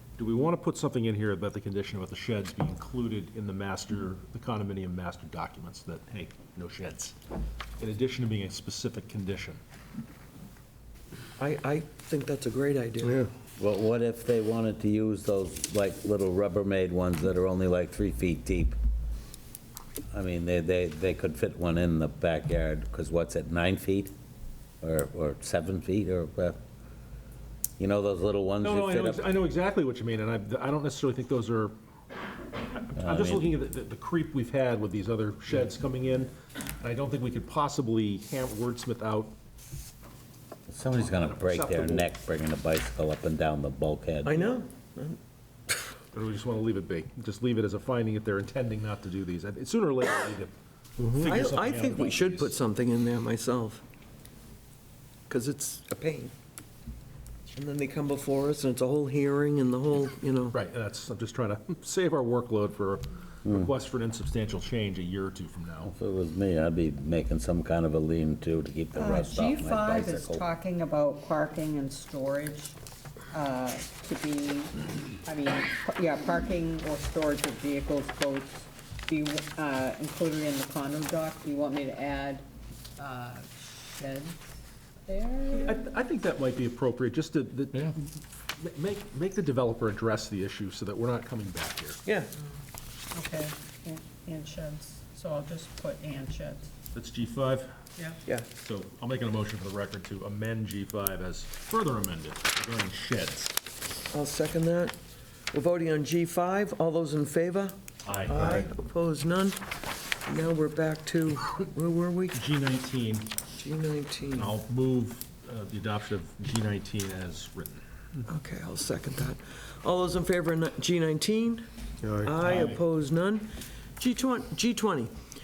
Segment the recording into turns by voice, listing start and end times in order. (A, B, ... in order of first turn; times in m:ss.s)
0:00.2-0:07.2 A
0:07.8-0:09.6 A
0:11.4-0:13.2 B
0:13.6-0:18.8 C
0:20.1-0:24.1 C
0:24.8-0:26.6 C
0:27.8-0:29.3 C
0:28.6-0:31.7 A
0:32.7-0:39.3 A
0:33.0-0:33.5 C
0:40.7-0:44.4 C
0:41.5-0:42.1 A
0:44.2-0:45.2 B
0:46.1-0:52.5 A
0:51.2-0:53.8 B
0:55.3-0:56.3 B
0:57.5-1:00.6 B
1:00.5-1:05.9 A
1:03.4-1:03.7 C
1:05.8-1:10.5 C
1:09.0-1:12.8 D
1:13.3-1:22.4 D
1:23.0-1:24.4 D
1:25.1-1:25.8 D
1:25.5-1:28.0 A
1:28.6-1:32.0 A
1:32.0-1:32.3 B
1:33.1-1:36.7 D
1:36.9-1:37.7 A
1:38.6-1:43.5 A
1:44.1-1:45.0 B
1:45.5-1:49.6 B
1:48.0-1:48.7 A
1:50.2-1:52.4 B
1:52.3-1:53.3 A
1:53.6-1:54.5 B
1:54.4-1:57.8 A
1:58.2-2:01.6 B
2:02.2-2:05.1 B
2:02.4-2:02.8 A